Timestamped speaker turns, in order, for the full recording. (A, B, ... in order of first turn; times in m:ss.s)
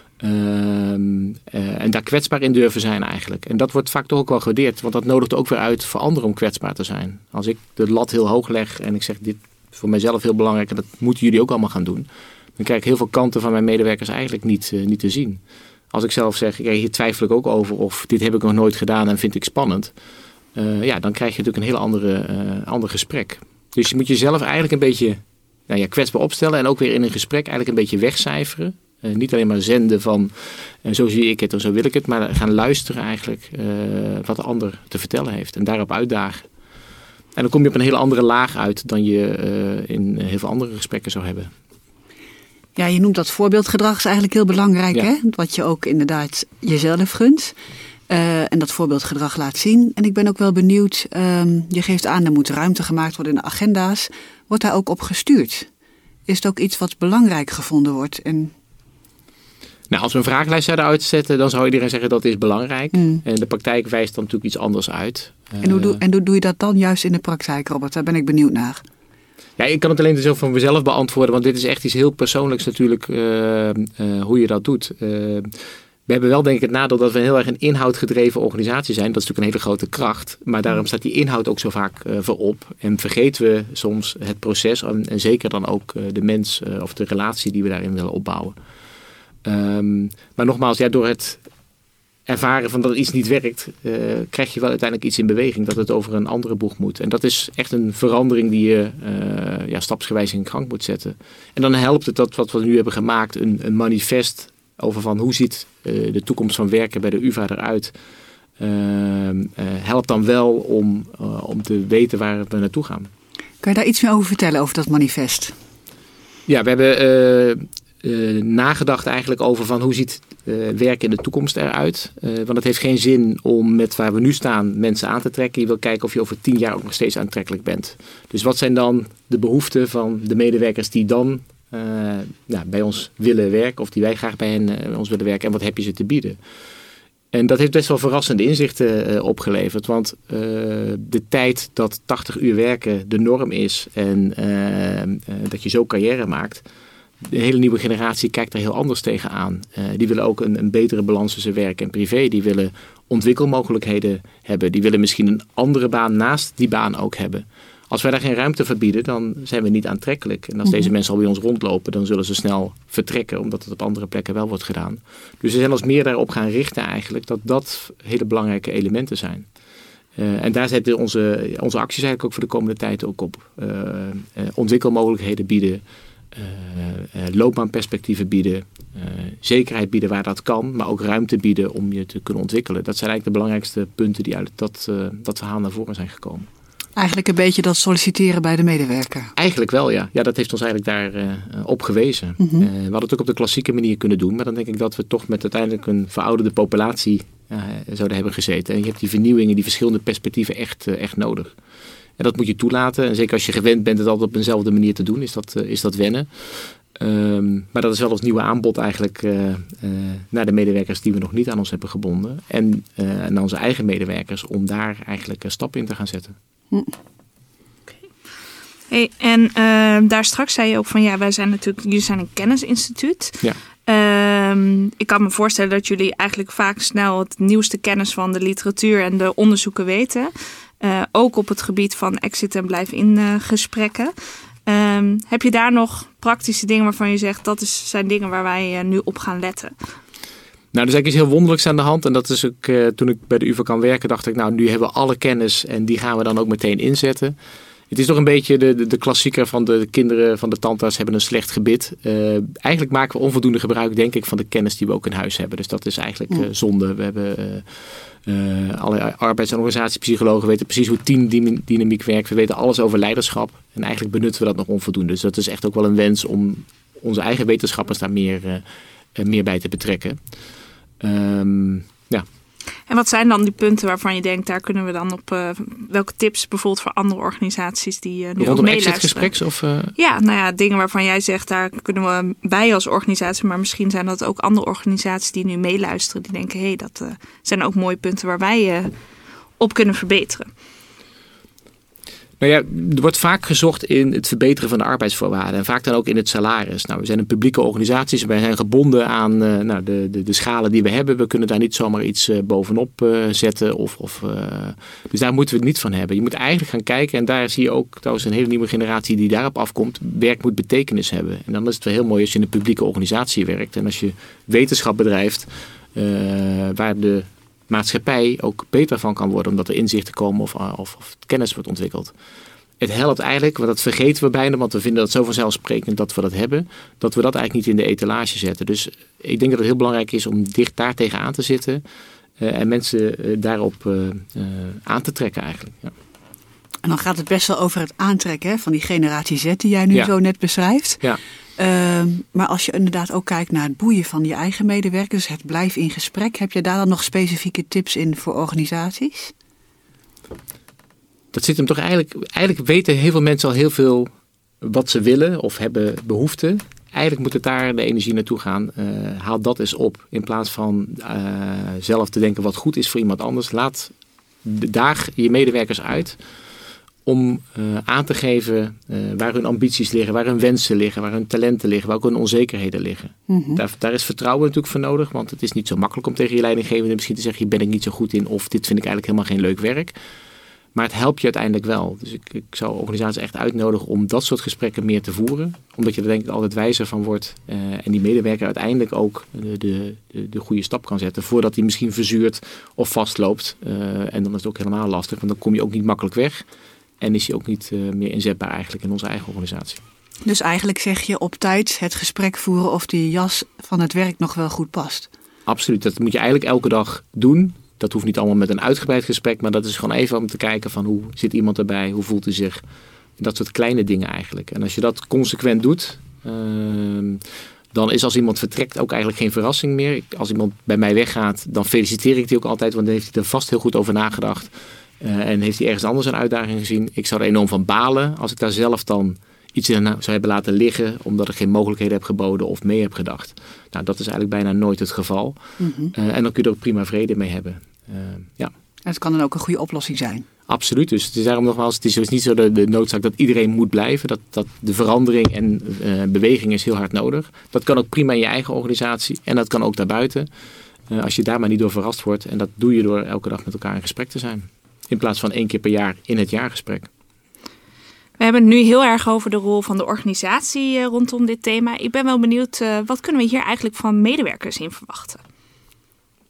0:00.2-0:19.9 A
0:20.6-0:36.4 A
0:37.4-0:41.5 A
0:42.8-0:47.6 B
0:48.1-0:55.7 B
0:56.3-0:58.5 B
0:59.9-1:06.0 A
1:02.9-1:03.2 B
1:05.6-1:08.8 B
1:09.6-1:15.5 A
1:16.1-1:28.6 A
1:29.4-1:31.4 A
1:32.3-1:47.9 A
1:48.6-1:53.1 A
1:53.6-1:55.5 B
1:56.5-2:16.4 A
2:17.3-2:26.6 A
2:27.2-2:49.5 A
2:40.6-2:40.9 B
2:50.2-3:06.5 A
3:07.0-3:09.3 B
3:09.4-3:21.5 A
3:12.4-3:12.7 B
3:22.2-3:36.4 A
3:38.9-3:54.1 C
3:54.7-3:59.7 C
4:00.7-4:07.4 A
4:07.9-4:28.6 A
4:29.2-4:30.2 A
4:31.0-4:32.3 A
4:32.9-4:39.3 C
4:38.4-4:40.0 A
4:40.0-4:48.9 C
4:49.6-4:50.5 C
4:52.4-5:22.1 A
5:22.8-5:31.8 A
5:32.4-5:35.9 A
5:36.8-5:41.0 B
5:41.6-5:49.3 B
5:51.3-5:54.1 A
5:54.6-6:03.9 A
6:04.4-6:06.2 A
6:07.0-6:19.9 A
6:13.3-6:13.6 B
6:20.8-6:36.4 A
6:37.0-6:39.8 A
6:40.2-6:45.1 B
6:45.5-6:52.6 A
6:53.2-6:57.2 A
6:57.7-7:15.4 A
7:15.6-7:16.0 B
7:15.9-7:18.5 A
7:18.8-7:20.3 B
7:20.5-7:30.3 A
7:30.9-7:36.9 A
7:38.2-7:45.2 C